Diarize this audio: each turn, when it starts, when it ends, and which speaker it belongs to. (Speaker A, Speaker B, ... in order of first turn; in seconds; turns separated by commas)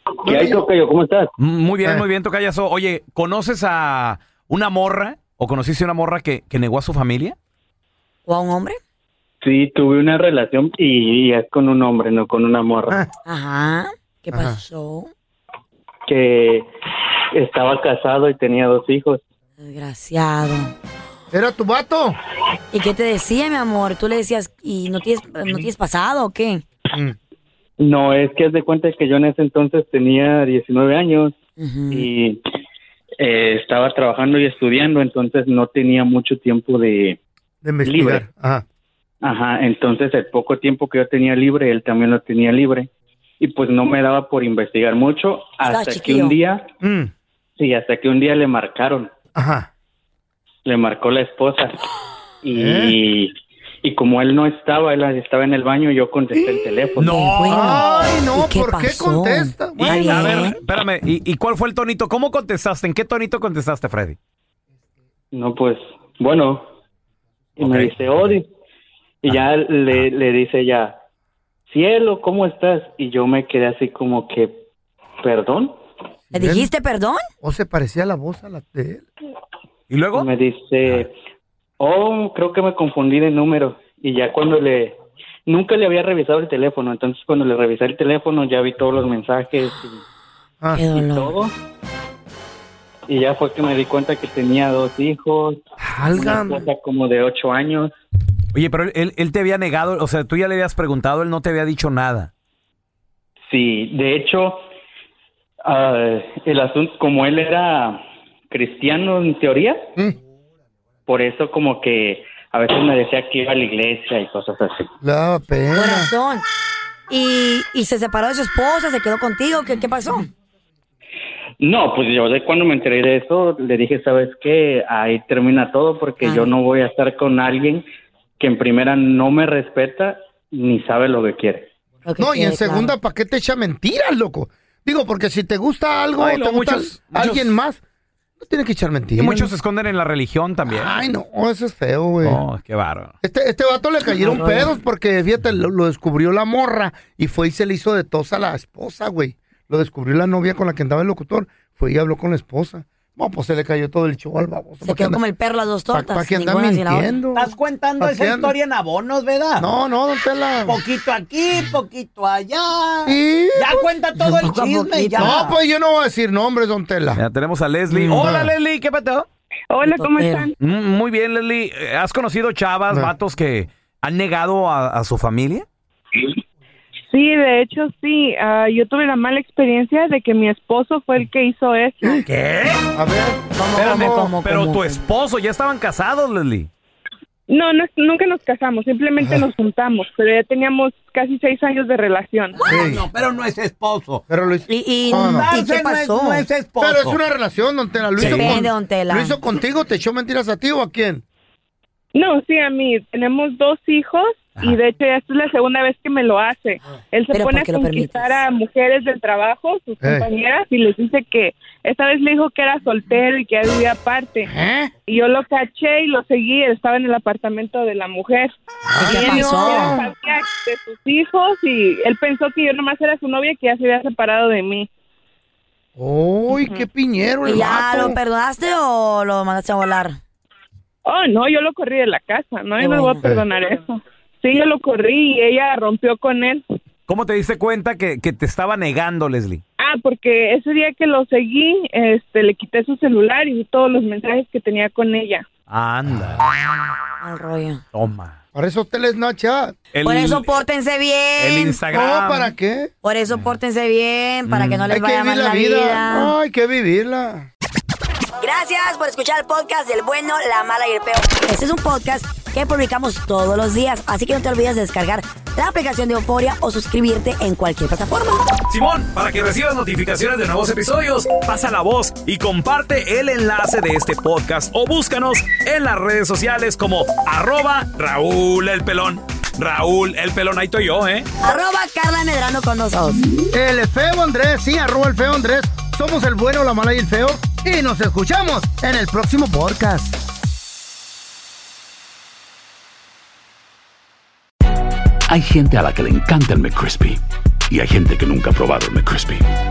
Speaker A: 0.2-0.7, Speaker B: 0.2-1.3, Speaker C: 1.4-7.3, Speaker D: 8.3-8.8, Speaker B: 9.4-13.0, Speaker D: 13.2-15.1, Speaker A: 14.3-14.6, Speaker B: 16.1-16.6, Speaker B: 17.3-19.2, Speaker D: 19.6-20.7, Speaker A: 21.3-22.2, Speaker D: 22.7-26.6, Speaker B: 27.8-31.4, Speaker D: 31.6-32.1, Speaker B: 31.9-32.4, Speaker B: 33.2-37.2, Speaker A: 37.6-38.6, Speaker B: 37.9-38.2, Speaker B: 39.2-42.9, Speaker B: 43.4-46.6, Speaker D: 45.6-46.4, Speaker A: 46.8-47.1, Speaker B: 47.6-49.1, Speaker A: 49.3-49.7, Speaker B: 50.6-51.9, Speaker B: 52.4-53.3, Speaker A: 52.5-53.0, Speaker B: 53.8-57.1, Speaker A: 56.3-56.9, Speaker C: 57.0-58.1, Speaker D: 57.0-60.6, Speaker A: 57.5-60.4, Speaker C: 59.8-64.2, Speaker B: 65.3-66.7, Speaker B: 67.6-68.5, Speaker C: 67.6-67.9, Speaker B: 69.2-71.0, Speaker B: 71.7-74.6, Speaker B: 75.2-75.8, Speaker D: 76.3-77.2, Speaker A: 76.3-76.7, Speaker A: 77.4-79.0, Speaker C: 79.9-80.3, Speaker B: 80.1-81.1, Speaker B: 81.8-90.0, Speaker D: 90.7-91.3, Speaker B: 90.9-91.5, Speaker B: 93.1-95.6, Speaker A: 95.8-96.7, Speaker B: 96.1-98.0, Speaker C: 98.5-102.3, Speaker B: 103.5-104.6, Speaker B: 105.6-109.8, Speaker B: 111.1-114.9, Speaker A: 115.0-116.1, Speaker D: 115.7-116.4, Speaker D: 117.1-120.3, Speaker B: 121.6-127.8, Speaker D: 126.2-126.5, Speaker B: 128.4-131.7, Speaker D: 132.0-132.9, Speaker A: 132.2-137.8, Speaker C: 136.2-137.5, Speaker A: 138.4-139.5, Speaker C: 139.2-141.0, Speaker A: 140.7-142.4, Speaker C: 142.2-143.1, Speaker A: 143.2-155.2, Speaker D: 144.1-144.7, Speaker D: 154.8-157.1, Speaker A: 155.9-158.5, Speaker E: 157.3-159.7, Speaker A: 159.6-160.8, Speaker E: 160.6-165.5, Speaker A: 163.0-164.5, Speaker D: 164.4-165.5, Speaker A: 165.2-167.2, Speaker C: 167.2-169.3, Speaker A: 168.0-168.5, Speaker F: 169.7-170.5, Speaker D: 169.8-170.5, Speaker C: 170.6-175.7, Speaker F: 177.1-182.2, Speaker C: 182.3-182.8, Speaker A: 182.9-184.3, Speaker D: 183.6-185.0, Speaker C: 183.8-186.7, Speaker F: 187.5-192.6, Speaker A: 189.2-189.5, Speaker E: 192.6-194.2, Speaker A: 192.7-193.1, Speaker A: 194.3-195.5, Speaker D: 194.7-196.5, Speaker E: 195.1-197.2, Speaker A: 196.8-201.2, Speaker C: 198.2-198.5, Speaker D: 198.2-199.4, Speaker F: 202.1-214.5, Speaker D: 207.3-208.4, Speaker A: 210.0-210.3, Speaker A: 214.4-214.9, Speaker F: 215.1-224.9, Speaker A: 218.9-220.0, Speaker D: 219.0-220.0, Speaker A: 225.9-228.2, Speaker F: 226.5-226.8, Speaker D: 227.4-230.2, Speaker F: 231.0-236.6, Speaker D: 232.8-233.2, Speaker C: 237.1-239.6, Speaker F: 239.8-245.4, Speaker C: 245.7-246.4, Speaker D: 247.2-247.8, Speaker C: 247.9-248.4, Speaker A: 248.5-249.7, Speaker C: 249.9-250.5, Speaker D: 250.0-251.8, Speaker C: 251.4-252.5, Speaker A: 251.9-252.9, Speaker D: 253.0-256.3, Speaker C: 254.4-254.9, Speaker A: 254.9-257.5, Speaker D: 258.4-268.4, Speaker C: 268.7-281.3, Speaker D: 281.4-283.2, Speaker A: 283.5-290.2, Speaker G: 295.3-299.4